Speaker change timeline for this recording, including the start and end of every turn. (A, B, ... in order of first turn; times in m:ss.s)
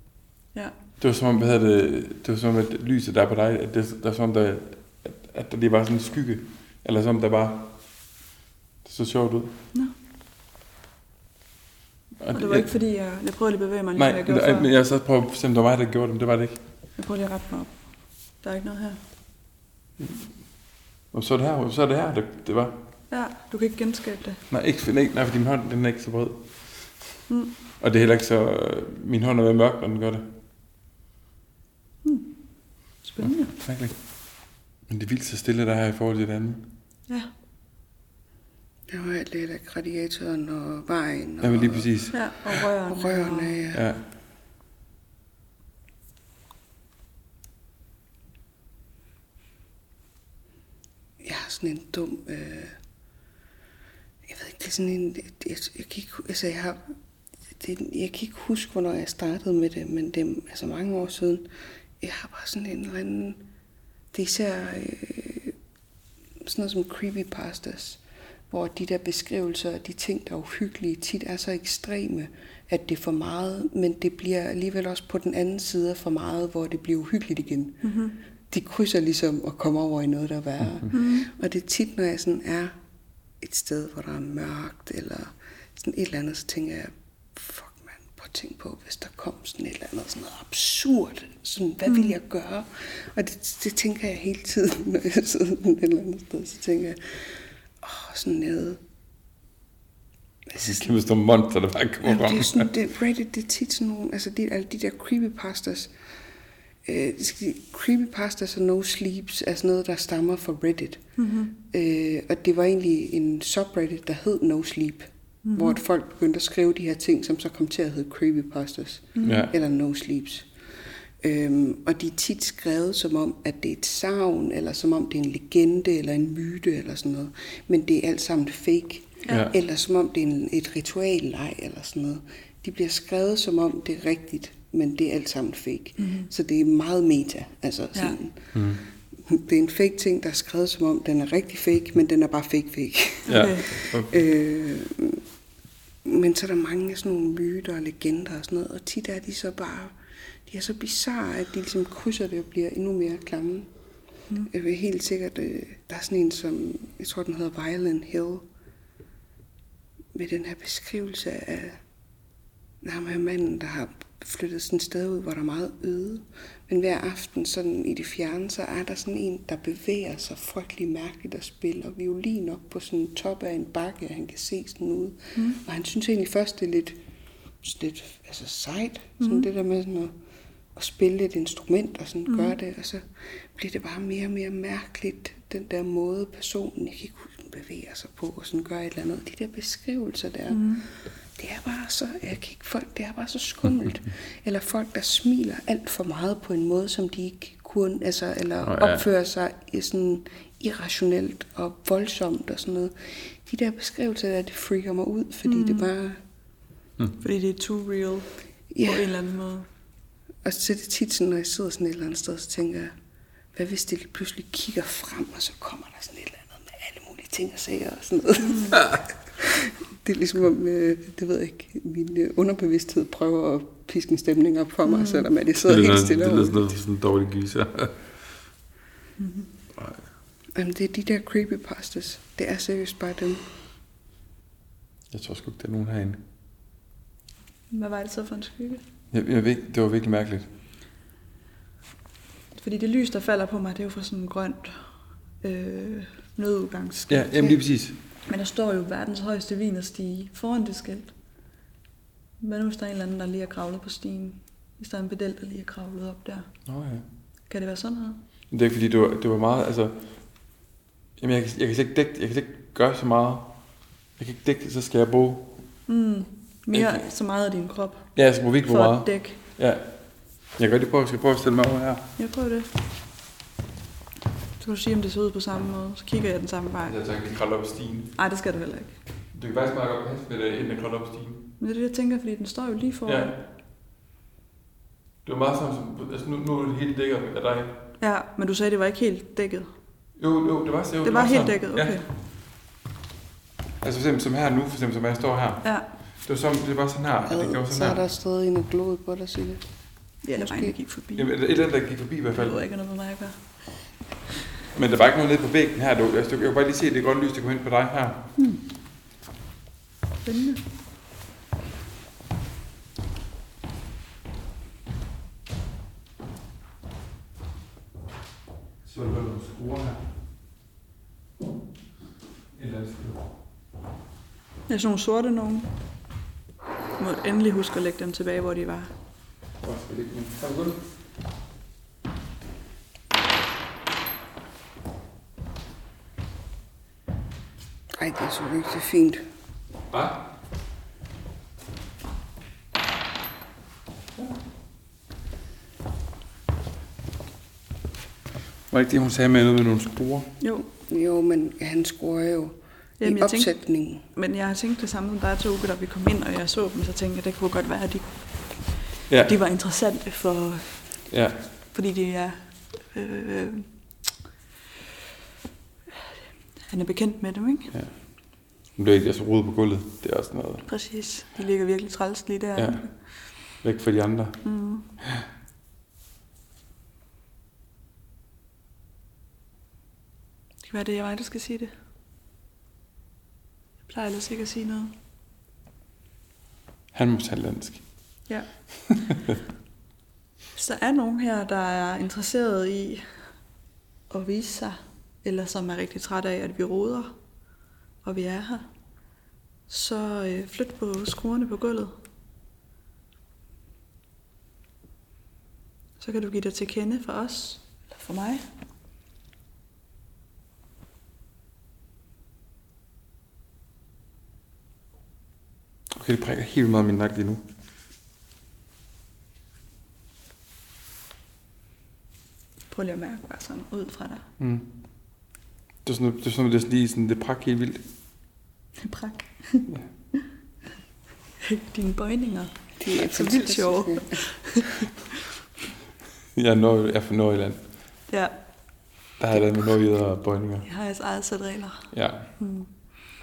0:01.0-0:07.8 A
0:08.8-0:09.5 A
0:12.2-0:12.7 A
0:12.3-0:14.7 B
0:14.0-0:16.6 A
0:17.0-0:17.8 B
0:18.4-0:19.0 B
0:20.0-0:20.3 A
0:21.1-0:22.8 A
0:23.1-0:24.4 B
0:24.5-0:27.0 A
0:27.8-0:30.3 A
0:32.0-0:32.3 B
0:33.0-0:33.5 B
0:33.2-0:36.7 A
0:38.9-0:41.9 C
0:41.4-0:42.5 A
0:42.1-0:43.6 B
0:42.8-0:43.8 C
0:43.7-0:44.0 A
0:51.2-0:52.8 C
0:54.2-0:56.9 C
0:57.6-1:03.4 C
1:04.1-1:05.6 C
1:06.4-1:17.8 C
1:17.8-1:18.2 B
1:18.5-1:22.8 C
1:20.9-1:21.3 B
1:23.4-1:38.8 C
1:31.8-1:32.2 B
1:40.6-1:42.7 A
1:42.0-1:46.0 C
1:46.8-1:51.0 C
1:51.2-1:51.5 B
1:51.6-2:00.5 C
1:55.4-1:55.8 B
1:59.2-1:59.5 B
1:59.2-1:59.5 A
2:01.2-2:18.6 C
2:09.2-2:09.5 B
2:09.3-2:09.5 A
2:16.0-2:16.3 B
2:18.5-2:18.8 A
2:19.2-2:25.2 C
2:23.2-2:23.8 B
2:23.3-2:24.2 A
2:26.0-2:33.7 C
2:34.5-2:38.5 C
2:40.1-2:41.8 C
2:42.8-2:57.0 C
2:55.3-2:55.6 B
2:57.6-3:00.2 C
2:59.2-2:59.5 B
3:00.7-3:26.2 C
3:02.3-3:02.5 B
3:10.5-3:10.8 B
3:18.6-3:19.0 A
3:25.4-3:25.9 B
3:27.2-3:28.3 B
3:28.7-3:29.1 C
3:28.8-3:29.7 B
3:30.4-3:32.9 C
3:33.5-3:46.8 C
3:38.4-3:38.8 B
3:44.8-3:45.3 B
3:45.6-3:48.0 A
3:49.2-3:49.5 B
3:50.5-3:53.4 C
3:55.1-3:56.2 A
3:57.7-3:58.8 B
3:59.1-4:00.5 A
4:02.5-4:07.6 B
4:07.1-4:08.0 A
4:08.2-4:11.1 B
4:12.4-4:16.5 B
4:16.6-4:17.0 A
4:17.5-4:18.2 B
4:18.5-4:20.0 A
4:21.2-4:25.6 A
4:25.9-4:29.4 B
4:26.7-4:27.0 A
4:28.1-4:30.0 A
4:30.5-4:32.0 A
4:32.2-4:32.7 B
4:34.6-4:37.0 B
4:36.8-4:38.1 A
4:38.2-4:39.0 B
4:39.3-4:41.5 A
4:41.6-4:43.3 B
4:43.0-4:43.4 A
4:45.2-4:47.8 A
4:48.0-4:49.7 B
4:50.2-4:52.0 A
4:51.0-4:52.1 B
4:53.8-4:58.0 A
4:57.3-4:59.6 C
5:00.2-5:01.3 B
5:00.3-5:00.8 C
5:01.2-5:02.6 A
5:02.3-5:03.4 B
5:04.7-5:08.3 A
5:10.2-5:10.6 B
5:18.8-5:20.0 A
5:22.5-5:23.2 A
5:24.7-5:25.7 B
5:27.0-5:28.9 B
5:29.6-5:30.8 A
5:38.0-5:39.2 C
5:39.9-5:40.2 A
5:48.7-5:50.3 A
5:50.4-5:50.6 B
5:50.8-5:54.0 C
5:53.0-5:58.7 B
5:59.1-5:59.4 A
5:59.2-6:01.0 B
6:01.1-6:01.4 A
6:01.7-6:03.7 B
6:06.7-6:07.7 B
6:08.7-6:10.7 A
6:10.7-6:12.9 B
6:12.6-6:14.4 A
6:14.4-6:14.8 B
6:20.6-6:21.7 B
6:23.8-6:24.9 B
6:26.9-6:27.8 A
6:28.3-6:28.7 B
6:30.5-6:33.1 B
6:34.1-6:37.2 B
6:38.0-6:38.7 B
6:39.7-6:42.0 B
6:46.0-6:48.4 B
6:55.9-6:57.4 A
7:02.7-7:04.2 B
7:04.4-7:04.7 A
7:05.8-7:07.8 A
7:08.8-7:09.7 B
7:11.4-7:14.9 B
7:12.8-7:14.2 C
7:16.3-7:17.6 A
7:18.1-7:18.3 B
7:19.2-7:20.7 A
7:20.6-7:22.7 B
7:21.9-7:22.3 A